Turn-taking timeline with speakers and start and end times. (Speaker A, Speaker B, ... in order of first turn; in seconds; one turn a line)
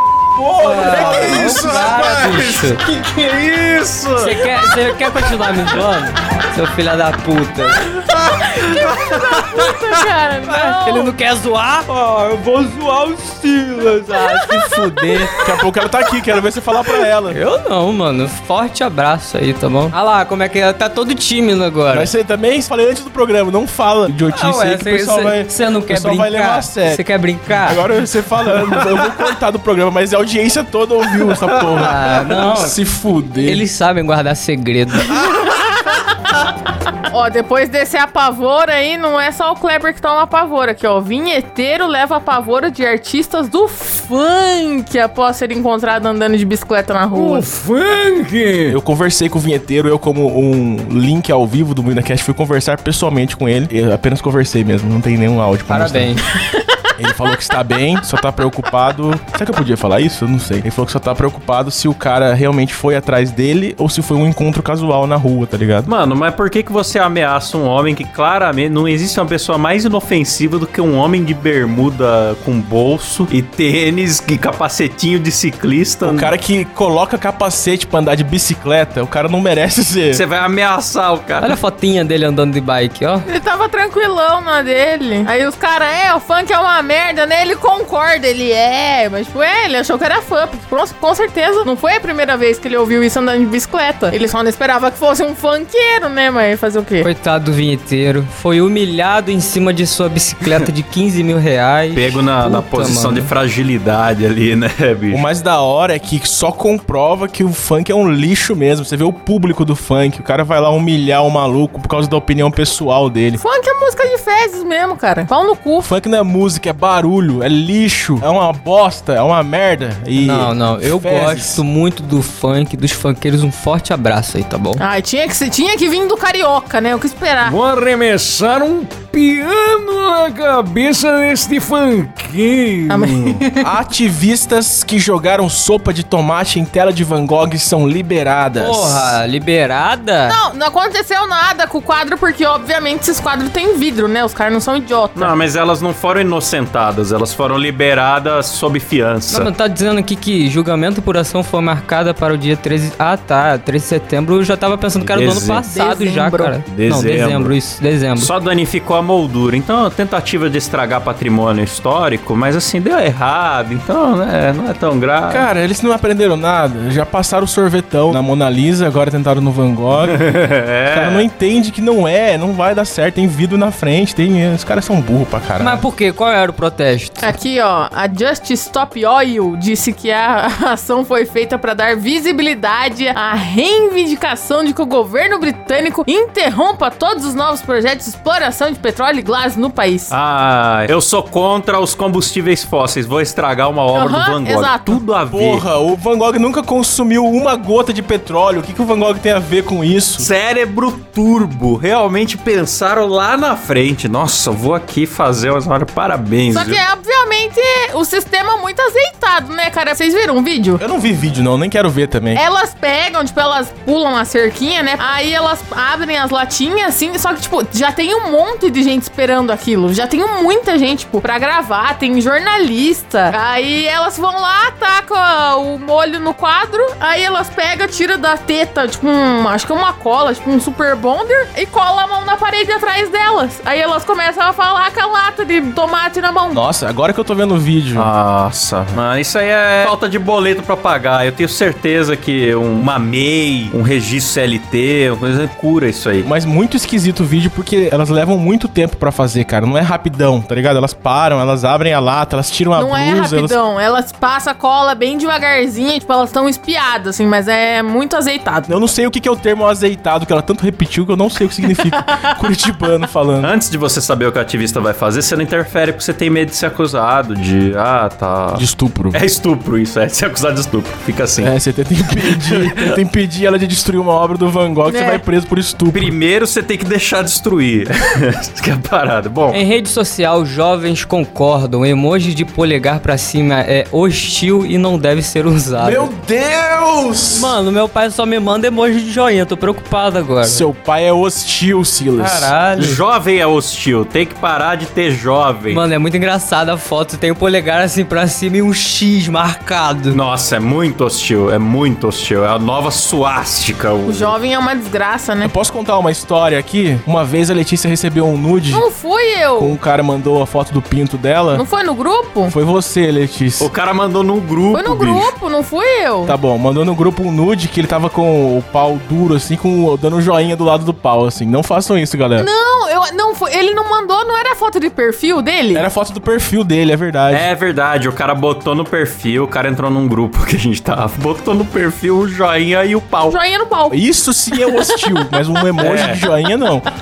Speaker A: 0.3-1.6
Speaker B: 0.5-2.8
Speaker C: 0.8-4.4
Speaker B: 4.2-7.8
Speaker C: 8.0-9.8
Speaker D: 9.1-11.1
Speaker B: 10.5-15.4
Speaker A: 15.4-17.4
Speaker B: 17.3-22.1
Speaker A: 21.9-33.6
Speaker B: 24.2-27.8
Speaker C: 28.8-29.1
Speaker B: 31.8-32.8
Speaker B: 33.4-35.2
Speaker D: 37.1-47.5
Speaker C: 47.3-48.7
Speaker A: 48.7-56.1
Speaker B: 55.7-56.2
Speaker A: 57.0-65.9
Speaker C: 65.8-76.3
Speaker A: 76.0-80.2
Speaker C: 80.1-81.5
Speaker B: 81.4-83.3
Speaker D: 83.3-97.1
Speaker B: 97.0-103.3
Speaker C: 101.9-105.2
Speaker A: 105.1-113.4
Speaker D: 113.4-115.9
Speaker A: 115.8-121.6
Speaker B: 120.2-124.8
Speaker D: 124.8-127.5
Speaker C: 127.4-129.6
Speaker E: 127.5-133.3
Speaker C: 130.3-132.5
Speaker D: 132.9-133.8
Speaker A: 133.6-139.2
Speaker B: 138.6-140.4
Speaker D: 140.2-145.3
Speaker C: 145.1-149.5
Speaker B: 149.3-158.3
Speaker C: 154.9-155.6
Speaker D: 155.7-156.6
Speaker C: 156.6-157.6
Speaker C: 158.2-165.5
Speaker A: 165.3-170.3
Speaker C: 170.1-171.3
Speaker A: 170.9-175.8
Speaker B: 175.6-177.2
Speaker D: 177.2-190.1
Speaker C: 190.1-195.6
Speaker D: 193.9-195.0
Speaker A: 195.3-200.3
Speaker C: 200.2-206.8
Speaker D: 206.5-210.8
Speaker A: 210.8-212.4
Speaker D: 212.3-236.6
Speaker A: 236.5-238.1
Speaker C: 237.9-246.3
Speaker A: 246.2-253.6
Speaker D: 252.7-258.7
Speaker A: 258.7-263.5
Speaker D: 261.7-262.3
Speaker C: 263.4-271.5
Speaker A: 268.5-269.2
Speaker A: 271.4-276.1
Speaker C: 272.4-272.8
Speaker D: 274.9-275.2
Speaker C: 275.9-279.6
Speaker B: 279.5-286.1
Speaker A: 285.8-287.6
Speaker B: 287.3-290.6
Speaker A: 290.4-292.5
Speaker B: 292.2-293.0
Speaker C: 292.8-295.8
Speaker B: 295.7-300.2
Speaker C: 300.1-304.3
Speaker D: 304.0-305.5
Speaker A: 305.4-308.9
Speaker D: 308.7-309.7
Speaker A: 309.6-311.6
Speaker D: 311.5-312.5
Speaker A: 312.4-313.7
Speaker C: 313.6-315.4
Speaker D: 314.7-316.4
Speaker A: 316.2-322.5
Speaker D: 322.4-325.9
Speaker A: 325.7-327.5
Speaker C: 327.3-333.4
Speaker D: 333.3-334.0
Speaker A: 333.9-336.9
Speaker D: 334.5-335.2
Speaker C: 335.8-336.2